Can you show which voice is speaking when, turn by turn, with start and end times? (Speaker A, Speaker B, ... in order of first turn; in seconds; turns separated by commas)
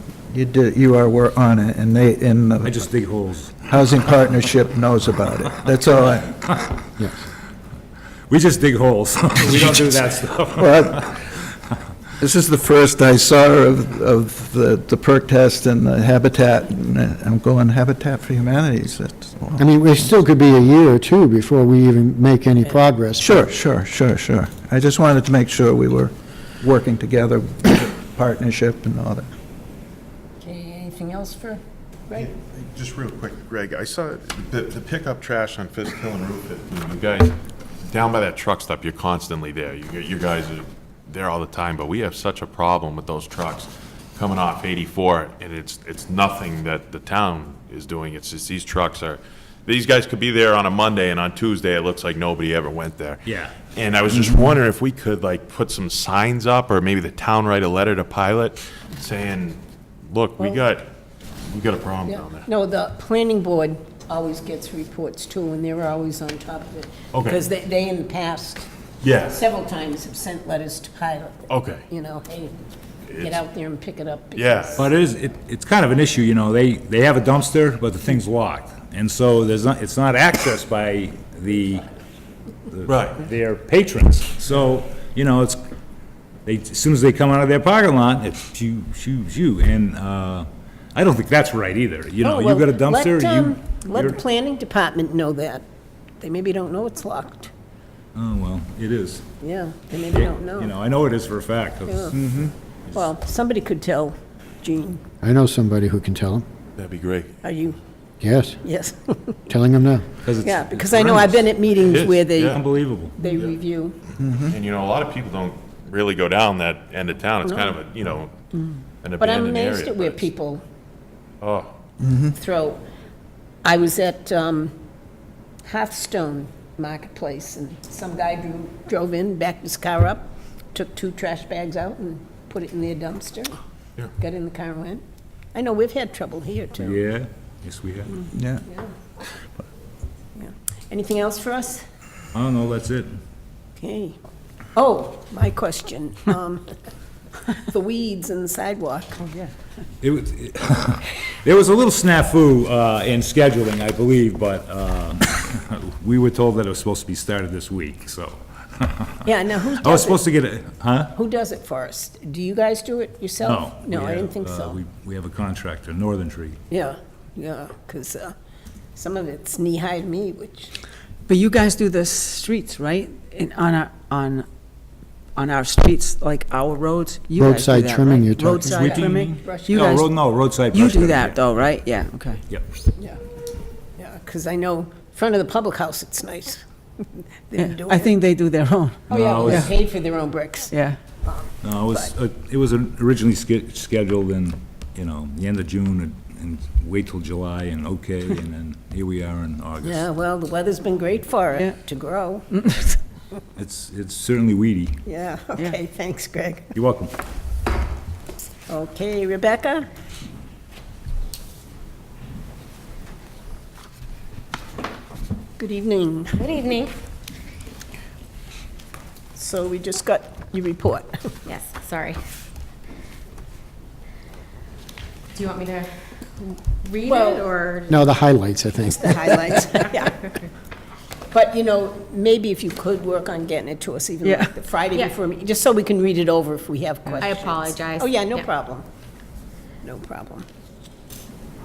Speaker A: 0.3-2.8, Speaker B: 2.6-3.7, Speaker A: 3.7-6.5, Speaker B: 8.3-10.9, Speaker A: 10.6-11.4, Speaker A: 12.2-19.6, Speaker C: 19.6-23.4, Speaker A: 23.2-29.3, Speaker D: 30.4-32.3, Speaker E: 32.1-37.3, Speaker E: 37.9-60.9, Speaker B: 53.3-53.6, Speaker B: 54.1-54.5, Speaker E: 61.5-62.5, Speaker D: 62.0-68.7, Speaker E: 67.1-67.4, Speaker E: 69.0-69.4, Speaker D: 69.3-72.6, Speaker E: 71.5-71.9, Speaker E: 73.1-73.4, Speaker D: 73.2-74.9, Speaker E: 74.3-74.9, Speaker B: 74.8-81.8, Speaker B: 82.7-85.6, Speaker E: 82.9-83.2, Speaker B: 86.5-94.2, Speaker D: 92.2-95.6, Speaker D: 96.2-97.5, Speaker B: 98.2-99.2, Speaker D: 99.4-100.7, Speaker B: 100.1-102.5, Speaker D: 101.9-102.2, Speaker D: 102.9-105.0, Speaker C: 105.2-106.5, Speaker E: 106.8-107.4, Speaker D: 107.4-107.8, Speaker C: 108.2-108.6, Speaker D: 108.6-109.4, Speaker C: 109.5-110.0, Speaker B: 110.2-111.4, Speaker D: 110.4-112.6, Speaker E: 111.8-112.6, Speaker B: 112.0-113.2, Speaker D: 113.1-114.0, Speaker A: 114.2-114.5, Speaker E: 114.5-118.4, Speaker D: 117.4-117.8, Speaker D: 118.5-120.6, Speaker E: 119.0-120.3, Speaker E: 121.4-121.7, Speaker A: 122.0-122.3, Speaker D: 122.4-122.8, Speaker D: 123.6-124.7, Speaker D: 125.7-133.5, Speaker D: 134.2-135.0, Speaker D: 135.5-137.0, Speaker B: 136.8-138.3, Speaker A: 138.3-138.6, Speaker D: 140.4-141.8, Speaker B: 142.3-143.1, Speaker D: 143.8-144.2, Speaker D: 144.7-146.7, Speaker D: 147.6-149.2, Speaker B: 150.0-159.3, Speaker D: 159.2-160.2, Speaker B: 159.8-161.1, Speaker D: 161.1-164.8, Speaker B: 163.4-166.6, Speaker D: 166.7-168.3, Speaker D: 169.0-170.7, Speaker F: 171.3-174.5, Speaker F: 175.4-180.2, Speaker C: 177.4-179.0, Speaker B: 178.6-181.7, Speaker D: 178.9-179.9, Speaker F: 180.7-182.4, Speaker D: 184.0-188.2, Speaker F: 187.6-189.7, Speaker B: 189.1-189.7, Speaker D: 189.1-192.1, Speaker F: 190.7-191.0, Speaker B: 191.6-200.0, Speaker D: 199.8-203.0, Speaker B: 203.6-205.0, Speaker D: 205.0-206.7, Speaker B: 206.7-207.1, Speaker D: 208.7-209.9, Speaker D: 215.6-216.4, Speaker G: 216.3-216.9, Speaker D: 219.4-221.2, Speaker G: 221.5-222.2, Speaker G: 225.3-228.0, Speaker D: 227.1-227.5, Speaker C: 227.9-229.7, Speaker F: 229.0-229.7, Speaker D: 229.7-230.2, Speaker G: 229.7-230.5, Speaker D: 231.3-238.8, Speaker F: 234.2-234.5, Speaker G: 237.1-238.5, Speaker D: 239.8-240.5